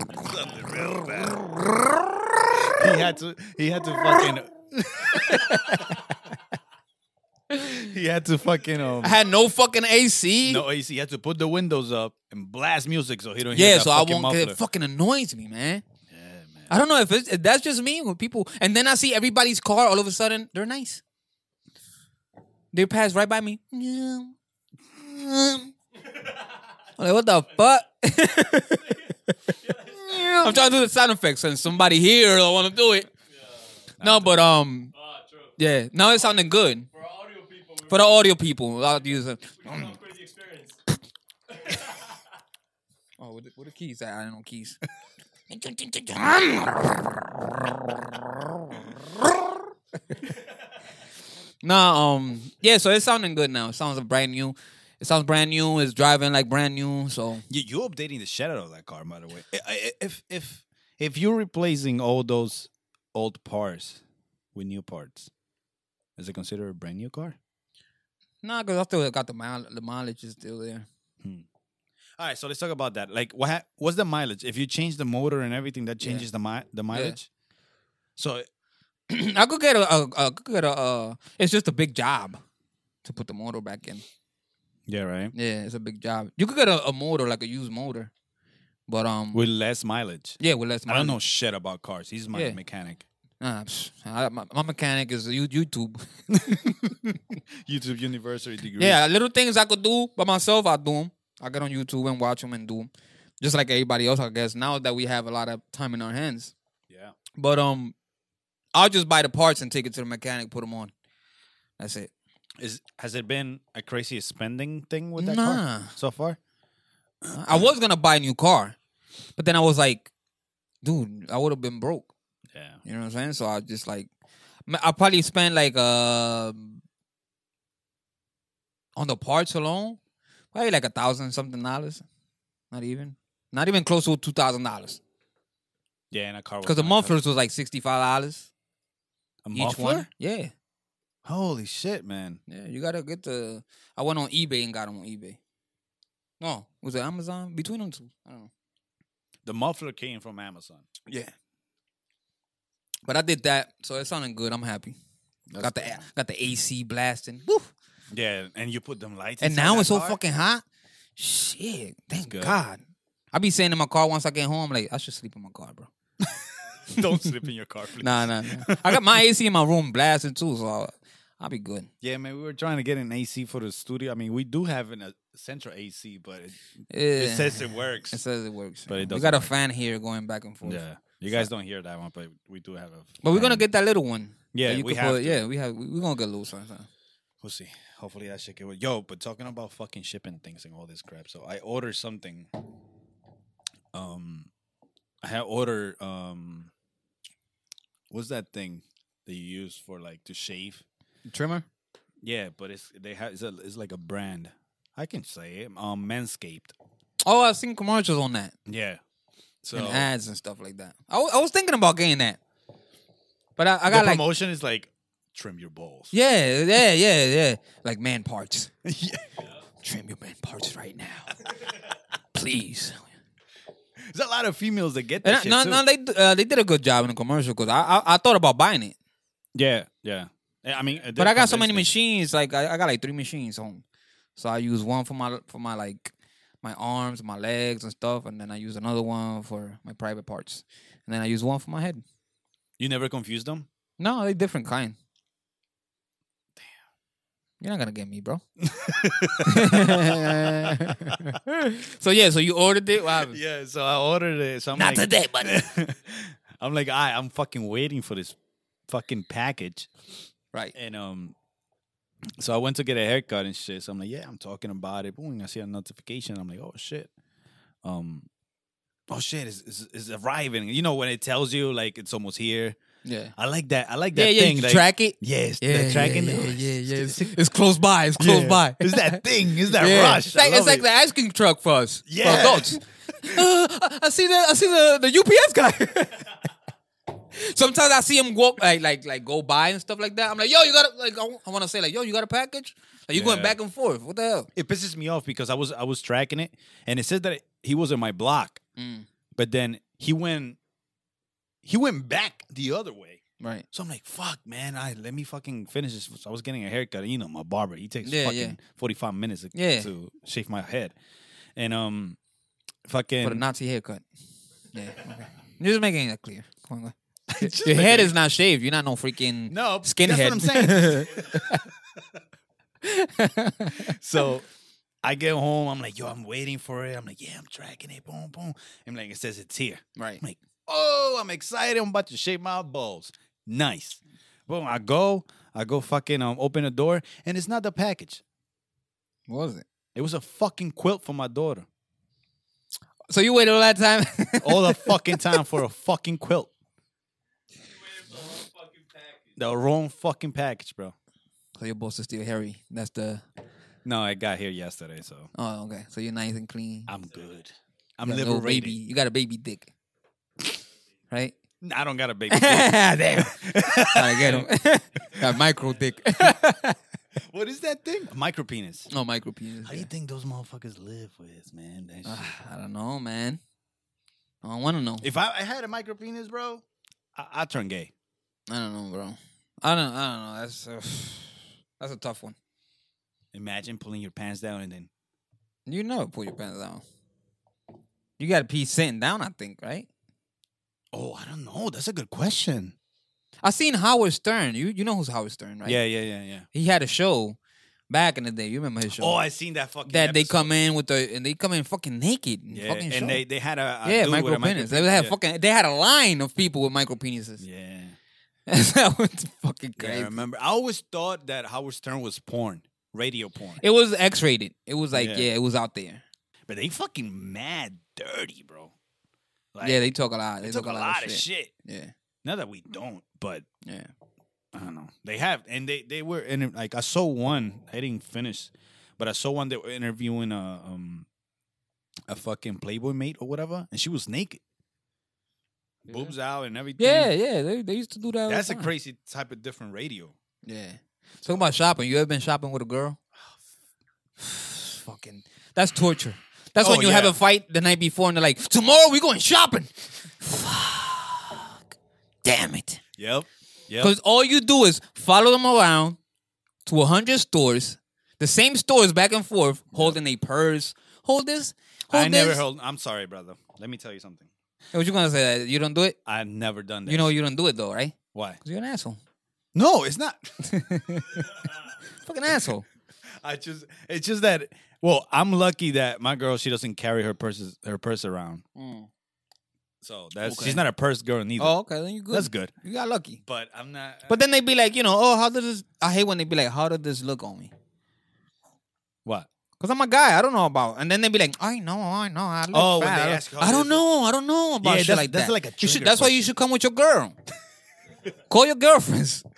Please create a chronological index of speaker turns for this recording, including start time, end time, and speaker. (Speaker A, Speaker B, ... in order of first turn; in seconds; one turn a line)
Speaker A: 0.1-1.6
Speaker A: 2.7-5.6
Speaker B: 5.1-6.2
Speaker B: 7.5-7.9
Speaker A: 7.6-9.2
Speaker B: 9.0-10.7
Speaker A: 10.4-14.6
Speaker B: 13.5-15.8
Speaker A: 16.1-16.7
Speaker B: 16.7-21.0
Speaker B: 22.7-24.4
Speaker B: 25.0-25.7
Speaker C: 26.1-26.6
Speaker B: 27.0-29.4
Speaker C: 28.6-30.7
Speaker B: 30.0-33.1
Speaker C: 33.3-33.9
Speaker A: 34.0-34.4
Speaker B: 34.0-34.9
Speaker C: 34.9-35.6
Speaker B: 35.6-36.9
Speaker C: 36.2-40.8
Speaker B: 37.9-40.0
Speaker C: 41.5-42.2
Speaker B: 43.2-44.8
Speaker B: 45.5-47.2
Speaker B: 47.9-49.4
Speaker C: 50.2-50.5
Speaker B: 51.6-57.5
Speaker A: 57.5-64.0
Speaker A: 64.5-65.3
Speaker A: 66.2-67.4
Speaker B: 68.4-70.9
Speaker A: 72.2-77.3
Speaker A: 78.2-78.5
Speaker B: 79.1-82.4
Speaker B: 83.0-84.0
Speaker A: 84.9-85.3
Speaker B: 85.3-88.1
Speaker B: 88.9-89.4
Speaker A: 89.3-93.0
Speaker B: 90.4-91.2
Speaker B: 92.3-92.6
Speaker B: 93.4-96.6
Speaker A: 96.3-99.0
Speaker B: 98.8-102.9
Speaker B: 103.4-106.5
Speaker A: 106.9-107.2
Speaker B: 107.4-108.0
Speaker B: 108.7-110.9
Speaker B: 111.8-112.1
Speaker A: 112.6-116.4
Speaker B: 115.2-115.9
Speaker A: 117.2-117.7
Speaker B: 117.3-118.8
Speaker B: 119.4-120.1
Speaker B: 120.8-122.1
Speaker A: 122.5-122.8
Speaker B: 122.8-124.1
Speaker B: 124.7-126.8
Speaker B: 129.0-130.0
Speaker B: 130.5-132.1
Speaker B: 132.7-135.0
Speaker A: 136.1-137.2
Speaker B: 136.6-138.5
Speaker A: 139.4-140.1
Speaker B: 139.5-140.5
Speaker A: 141.2-142.4
Speaker B: 142.5-145.4
Speaker B: 146.4-148.5
Speaker A: 149.4-151.1
Speaker B: 153.1-155.0
Speaker A: 155.5-156.1
Speaker B: 155.6-157.7
Speaker A: 158.1-160.2
Speaker B: 159.4-160.6
Speaker B: 161.2-165.9
Speaker A: 162.2-162.6
Speaker A: 166.2-169.0
Speaker B: 168.0-171.9
Speaker A: 172.0-176.6
Speaker B: 176.9-181.5
Speaker A: 177.2-178.2
Speaker A: 178.9-179.5
Speaker A: 180.6-183.6
Speaker B: 183.2-186.9
Speaker A: 184.5-185.4
Speaker A: 187.4-192.5
Speaker A: 193.9-194.5
Speaker A: 195.2-196.7
Speaker A: 198.1-200.8
Speaker B: 201.3-201.7
Speaker A: 202.2-206.8
Speaker B: 207.2-208.5
Speaker A: 208.7-209.0
Speaker A: 209.6-210.1
Speaker B: 209.7-212.4
Speaker B: 213.6-214.2
Speaker A: 213.9-216.1
Speaker B: 216.1-218.7
Speaker A: 218.8-219.3
Speaker B: 219.8-221.5
Speaker B: 222.3-223.1
Speaker A: 224.0-225.8
Speaker B: 225.2-229.0
Speaker A: 229.6-231.9
Speaker B: 231.2-233.8
Speaker B: 234.4-242.0
Speaker A: 242.8-243.7
Speaker B: 244.0-245.0
Speaker B: 247.6-248.4
Speaker A: 248.6-251.4
Speaker B: 249.4-253.4
Speaker A: 253.1-258.4
Speaker B: 254.7-255.7
Speaker A: 258.9-259.9
Speaker A: 260.8-261.4
Speaker A: 262.4-267.1
Speaker A: 267.8-268.3
Speaker A: 269.1-272.8
Speaker B: 273.1-273.3
Speaker A: 273.4-277.4
Speaker B: 274.1-286.4
Speaker A: 278.2-280.9
Speaker A: 282.1-283.4
Speaker B: 287.3-294.5
Speaker A: 293.1-293.6
Speaker A: 294.6-298.6
Speaker B: 298.8-299.1
Speaker A: 299.4-300.6
Speaker A: 301.6-303.2
Speaker B: 303.4-303.6
Speaker A: 303.7-310.9
Speaker B: 308.0-308.6
Speaker B: 309.5-309.9
Speaker A: 311.6-312.2
Speaker A: 312.9-313.4
Speaker B: 313.2-314.0
Speaker B: 314.7-321.6
Speaker A: 317.3-318.1
Speaker A: 319.5-321.6
Speaker B: 322.8-324.0
Speaker A: 323.7-324.5
Speaker A: 325.0-338.2
Speaker B: 330.0-330.2
Speaker B: 339.3-339.6
Speaker A: 339.9-341.7
Speaker B: 343.1-345.4
Speaker A: 344.4-346.5
Speaker C: 347.6-349.5
Speaker A: 349.4-350.9
Speaker B: 351.6-353.2
Speaker A: 353.9-355.3
Speaker B: 355.4-356.9
Speaker A: 356.9-358.8
Speaker C: 357.0-357.4
Speaker B: 358.1-359.7
Speaker A: 361.6-364.5
Speaker B: 362.3-366.8
Speaker C: 365.3-366.1
Speaker A: 367.2-368.9
Speaker B: 368.9-369.9
Speaker A: 369.6-372.3
Speaker B: 372.1-373.4
Speaker B: 374.4-375.1
Speaker A: 375.0-376.6
Speaker A: 377.1-377.9
Speaker B: 378.5-382.4
Speaker A: 383.3-384.9
Speaker B: 385.7-386.8
Speaker B: 388.2-389.9
Speaker A: 390.9-392.8
Speaker B: 393.4-395.8
Speaker A: 395.6-396.5
Speaker B: 396.5-397.4
Speaker B: 397.9-399.2
Speaker A: 399.0-400.5
Speaker B: 399.9-403.2
Speaker A: 402.5-405.1
Speaker B: 403.8-407.4
Speaker A: 407.4-408.0
Speaker B: 408.5-410.2
Speaker A: 409.8-413.6
Speaker B: 413.6-416.0
Speaker A: 414.9-415.3
Speaker A: 416.5-418.7
Speaker A: 419.5-421.5
Speaker B: 419.6-421.9
Speaker A: 422.2-423.5
Speaker B: 423.6-423.9
Speaker A: 424.5-431.1
Speaker A: 432.1-434.4
Speaker A: 435.9-437.1
Speaker B: 436.8-438.7
Speaker A: 438.3-440.1
Speaker B: 440.4-443.0
Speaker B: 444.2-451.6
Speaker A: 446.6-447.2
Speaker B: 452.2-452.8
Speaker A: 453.0-453.9
Speaker B: 453.8-456.0
Speaker B: 456.7-462.4
Speaker A: 461.9-464.3
Speaker B: 464.7-466.0
Speaker A: 466.1-467.1
Speaker B: 466.9-469.0
Speaker A: 468.1-468.4
Speaker A: 469.6-470.6
Speaker B: 470.4-472.7
Speaker A: 473.1-478.4
Speaker B: 478.6-478.9
Speaker A: 479.8-481.6
Speaker B: 480.2-480.6
Speaker B: 481.4-483.2
Speaker A: 482.1-482.5
Speaker A: 483.2-484.2
Speaker B: 484.1-487.5
Speaker B: 489.6-497.2
Speaker A: 492.5-493.8
Speaker A: 494.6-496.3
Speaker B: 498.3-499.2